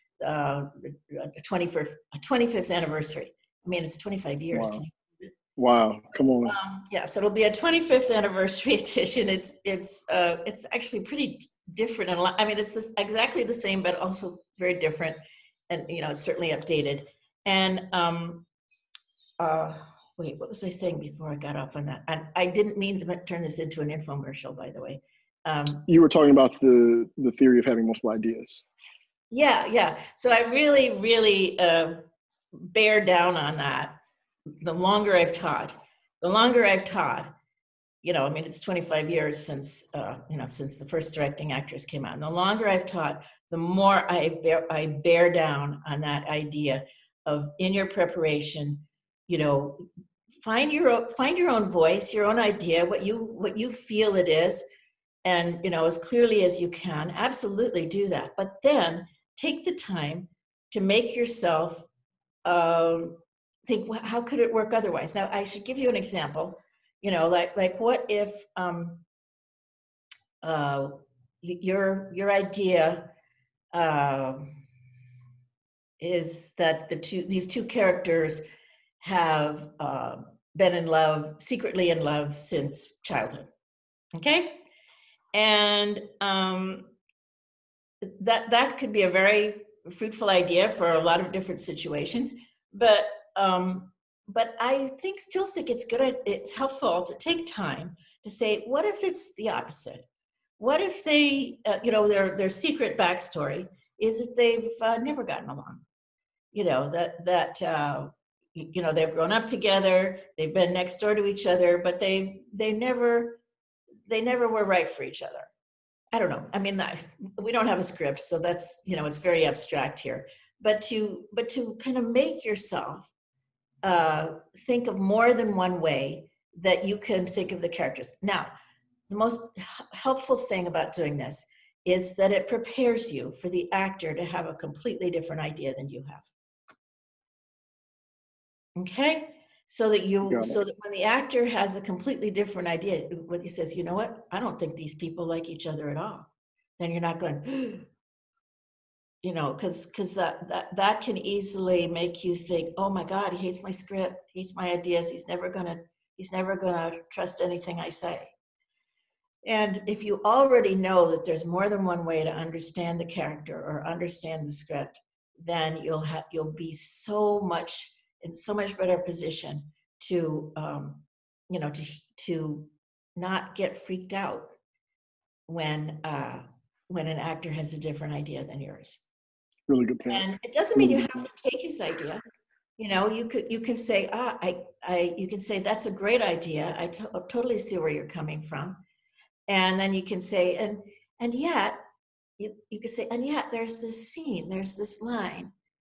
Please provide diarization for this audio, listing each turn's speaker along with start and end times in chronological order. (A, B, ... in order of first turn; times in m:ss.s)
0:00.2-0:05.3 A
0:04.5-0:04.8 B
0:05.6-0:06.6 B
0:06.4-0:18.4 A
0:19.4-0:25.8 A
0:25.9-0:28.6 B
0:29.3-0:32.0 A
0:32.5-0:34.0 A
0:34.6-0:37.3 A
0:38.0-0:49.8 A
0:50.4-0:54.6 A
0:55.2-1:01.8 A
1:02.4-1:09.0 A
1:10.4-1:13.1 A
1:13.7-1:14.6 A
1:16.0-1:18.4 A
1:19.0-1:23.5 A
1:24.1-1:24.6 A
1:25.3-1:26.9 A
1:28.0-1:40.0 A
1:40.6-1:45.8 A
1:46.5-1:53.4 A
1:54.1-1:55.5 A
1:56.1-2:03.1 A
2:03.8-2:08.5 A
2:09.1-2:16.3 A
2:18.8-2:26.3 A
2:20.2-2:20.6 B
2:26.8-2:27.8 A
2:29.2-2:38.3 A
2:39.4-2:54.5 A
2:55.5-2:59.0 A
2:59.7-3:01.2 B
3:00.1-3:02.2 A
3:02.8-3:08.8 A
3:09.5-3:11.8 A
3:12.4-3:15.5 A